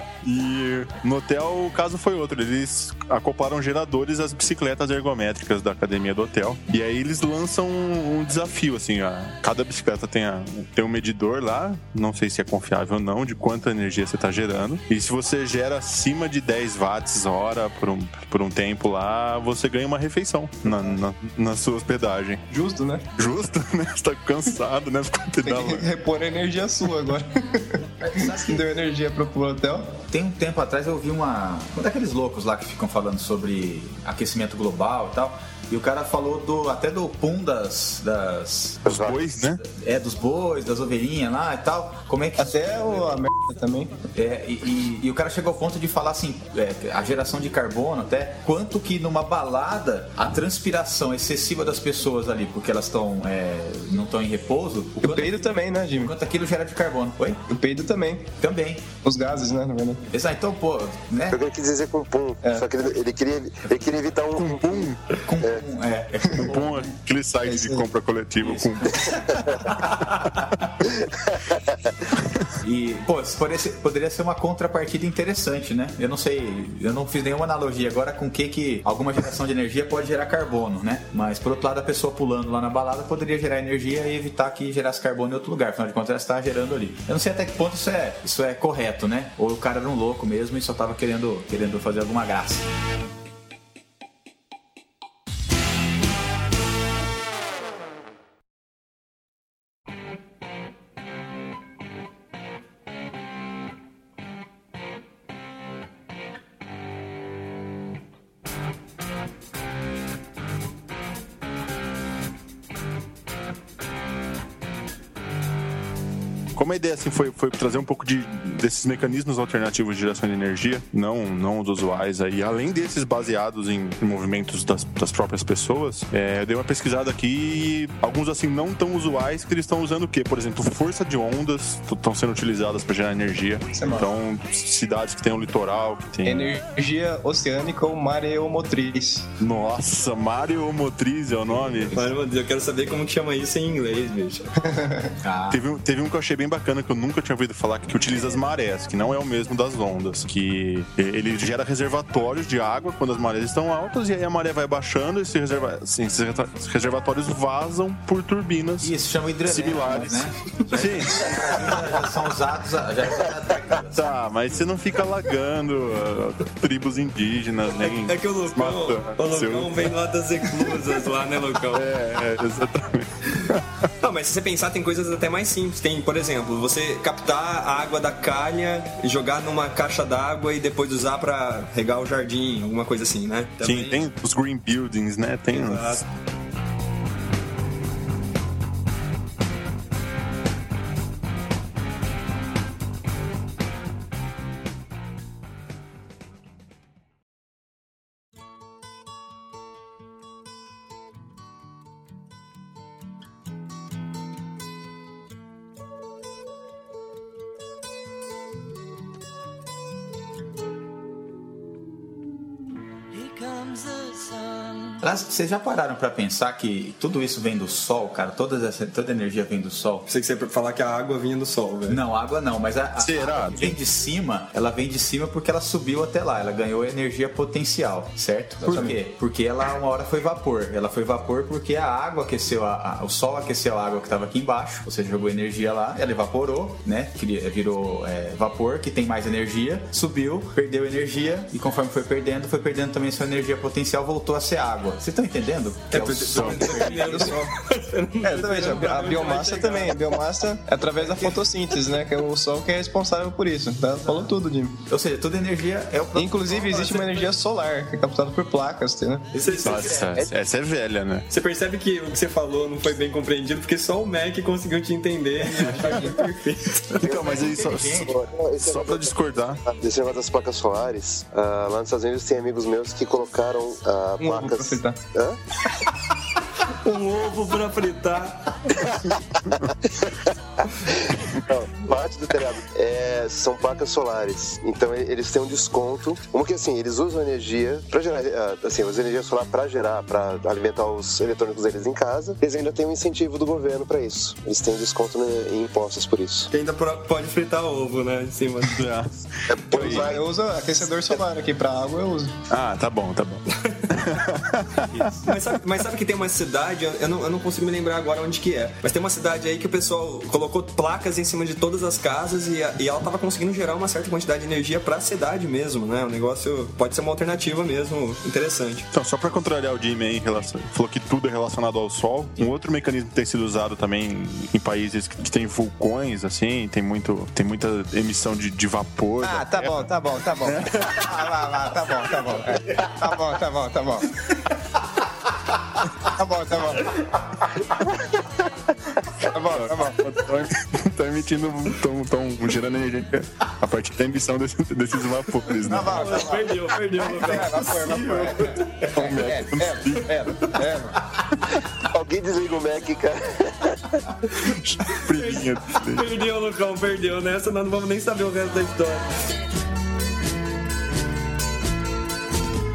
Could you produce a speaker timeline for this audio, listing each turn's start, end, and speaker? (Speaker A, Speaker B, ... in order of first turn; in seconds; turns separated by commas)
Speaker A: 0.2-22.4, Speaker B: 20.7-20.9, Speaker B: 22.5-23.1, Speaker A: 23.2-25.9, Speaker B: 25.4-30.0, Speaker C: 28.0-28.8, Speaker C: 30.1-43.2, Speaker A: 38.9-39.6, Speaker D: 38.9-39.2, Speaker B: 42.4-44.0, Speaker C: 44.1-57.4, Speaker B: 55.0-56.1, Speaker B: 57.5-58.3, Speaker C: 58.4-58.9, Speaker B: 59.0-60.1, Speaker C: 60.1-61.4, Speaker D: 61.3-64.8, Speaker A: 64.3-65.0, Speaker C: 65.1-66.9, Speaker A: 66.4-69.2, Speaker B: 67.4-67.9, Speaker C: 68.4-70.7, Speaker D: 71.0-71.8, Speaker C: 72.6-92.7, Speaker A: 116.5-136.5, Speaker B: 133.7-134.1, Speaker B: 136.2-139.3, Speaker A: 139.4-142.1, Speaker E: 141.9-144.7, Speaker B: 144.7-145.1, Speaker C: 145.2-145.6, Speaker A: 145.5-161.8, Speaker C: 158.8-164.1, Speaker A: 163.9-169.9, Speaker E: 167.8-171.9, Speaker A: 171.7-173.9, Speaker E: 174.0-184.1, Speaker A: 183.6-186.0, Speaker E: 185.5-186.1, Speaker C: 215.0-220.1, Speaker E: 220.1-222.0, Speaker C: 221.9-247.4, Speaker A: 223.0-223.8, Speaker A: 228.7-228.9, Speaker E: 245.9-250.2, Speaker A: 246.3-246.7, Speaker B: 246.9-247.5, Speaker B: 248.2-254.8, Speaker E: 251.0-251.4, Speaker C: 254.9-257.1, Speaker B: 256.1-259.3, Speaker C: 259.3-260.3, Speaker E: 259.4-260.0, Speaker A: 259.6-261.3, Speaker E: 261.3-266.9, Speaker A: 265.6-266.0, Speaker B: 265.6-266.4, Speaker A: 267.0-269.6, Speaker C: 267.0-268.1, Speaker D: 267.0-269.1, Speaker D: 269.6-275.4, Speaker B: 274.2-275.0, Speaker E: 276.7-278.8, Speaker D: 279.9-280.3, Speaker D: 280.8-296.5, Speaker E: 296.5-298.8, Speaker A: 298.7-300.1, Speaker D: 299.5-300.3, Speaker B: 299.7-302.3, Speaker A: 302.5-305.1, Speaker E: 303.5-303.9, Speaker E: 305.2-318.9, Speaker A: 318.9-331.1, Speaker B: 329.2-334.2, Speaker B: 336.0-337.0, Speaker B: 339.2-340.1, Speaker A: 339.4-346.3, Speaker B: 345.6-346.5, Speaker E: 345.9-347.8, Speaker B: 347.0-351.0, Speaker A: 347.7-350.5, Speaker C: 347.8-348.3, Speaker E: 348.6-348.9, Speaker D: 351.9-354.0, Speaker A: 354.4-356.1, Speaker E: 354.9-359.1